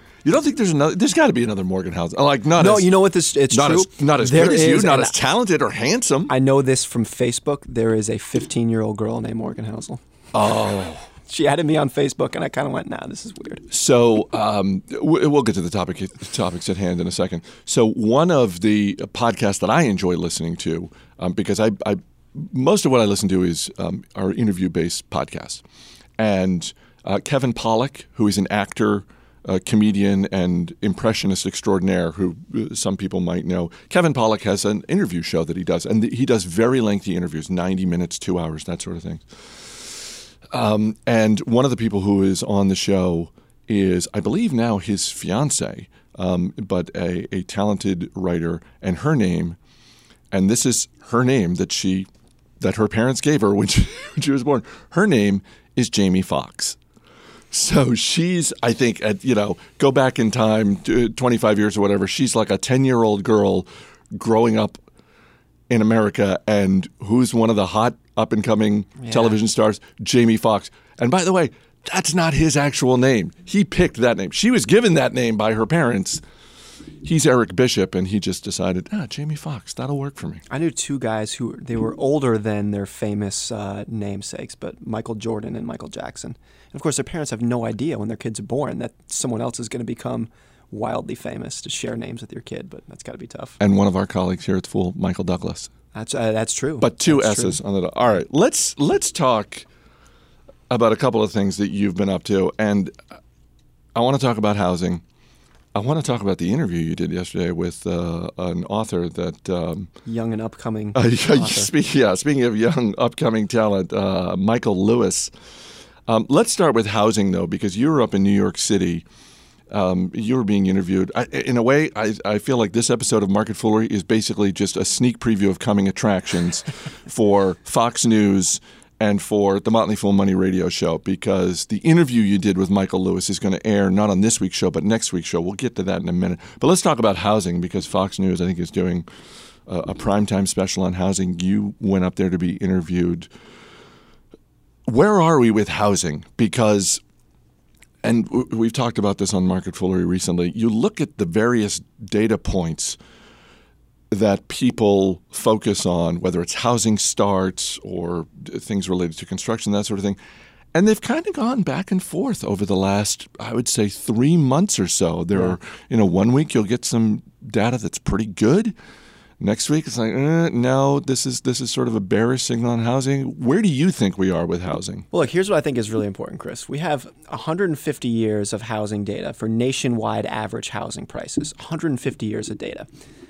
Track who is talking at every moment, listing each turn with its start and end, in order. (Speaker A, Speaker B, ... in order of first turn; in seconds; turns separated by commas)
Speaker A: 0.2-2.9, Speaker B: 2.6-5.2, Speaker A: 3.5-6.3, Speaker B: 6.3-10.0, Speaker A: 10.3-11.1, Speaker B: 11.3-13.7, Speaker A: 13.7-25.6, Speaker A: 26.2-49.6, Speaker A: 50.3-52.1, Speaker A: 52.6-56.8, Speaker A: 57.5-64.8, Speaker A: 65.7-76.2, Speaker B: 69.0-69.3, Speaker A: 77.0-80.4, Speaker B: 80.5-93.6, Speaker A: 93.6-95.7, Speaker B: 95.9-97.6, Speaker A: 96.8-99.7, Speaker A: 100.7-102.9, Speaker A: 104.0-105.0, Speaker A: 105.8-109.9, Speaker B: 110.0-111.7, Speaker A: 111.0-115.3, Speaker A: 116.1-119.0, Speaker A: 119.7-139.1, Speaker A: 139.7-143.3, Speaker A: 144.9-147.0, Speaker A: 148.0-153.0, Speaker A: 154.1-160.2, Speaker A: 160.7-168.7, Speaker A: 169.4-175.1, Speaker B: 175.1-182.9